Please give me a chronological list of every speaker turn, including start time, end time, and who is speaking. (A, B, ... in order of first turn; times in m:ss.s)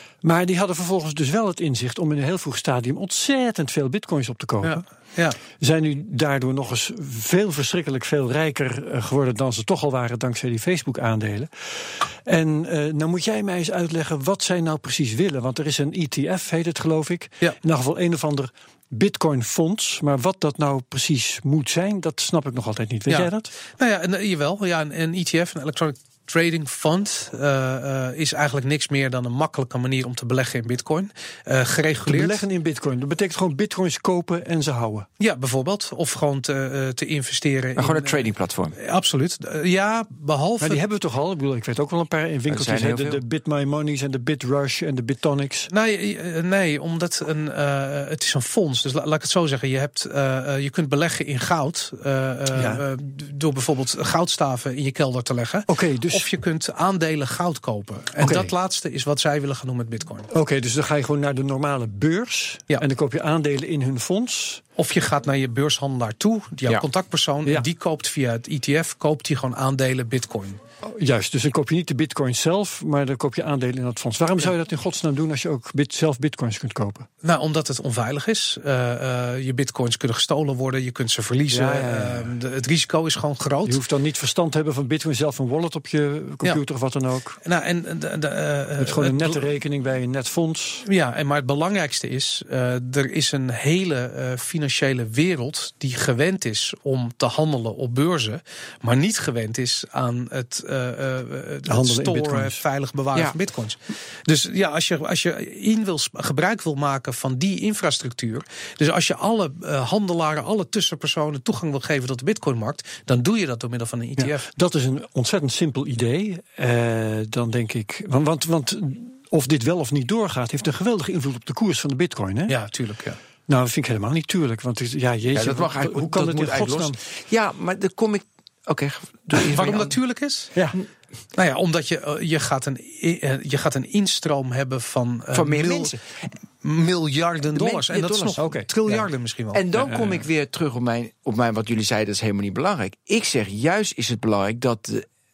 0:00.2-0:04.8 A
0:04.6-0:05.4 B
0:05.6-0:23.5 A
0:23.1-0:32.4 B
0:32.0-0:35.1 A
0:35.2-0:40.8 B
0:37.8-0:38.7 C
0:40.6-0:45.7 A
0:42.5-0:43.2 C
0:45.7-1:00.3 B
0:52.5-0:52.8 A
0:55.7-0:56.2 A
0:58.2-0:58.5 A
1:00.3-1:04.6 A
1:04.8-1:10.6 B
1:10.8-1:17.1 A
1:17.2-1:23.8 B
1:21.5-1:22.3 A
1:23.6-1:27.4 A
1:27.4-1:29.4 B
1:28.8-1:30.8 A
1:30.8-1:54.4 B
1:41.7-1:42.6 A
1:54.2-2:02.6 A
2:02.5-2:03.2 B
2:03.5-2:07.0 A
2:05.3-2:10.0 C
2:09.4-2:10.5 B
2:11.3-2:15.9 B
2:15.3-2:16.0 C
2:16.6-2:19.6 B
2:17.5-2:18.4 C
2:18.4-2:19.0 A
2:19.5-2:25.0 C
2:19.7-2:20.2 A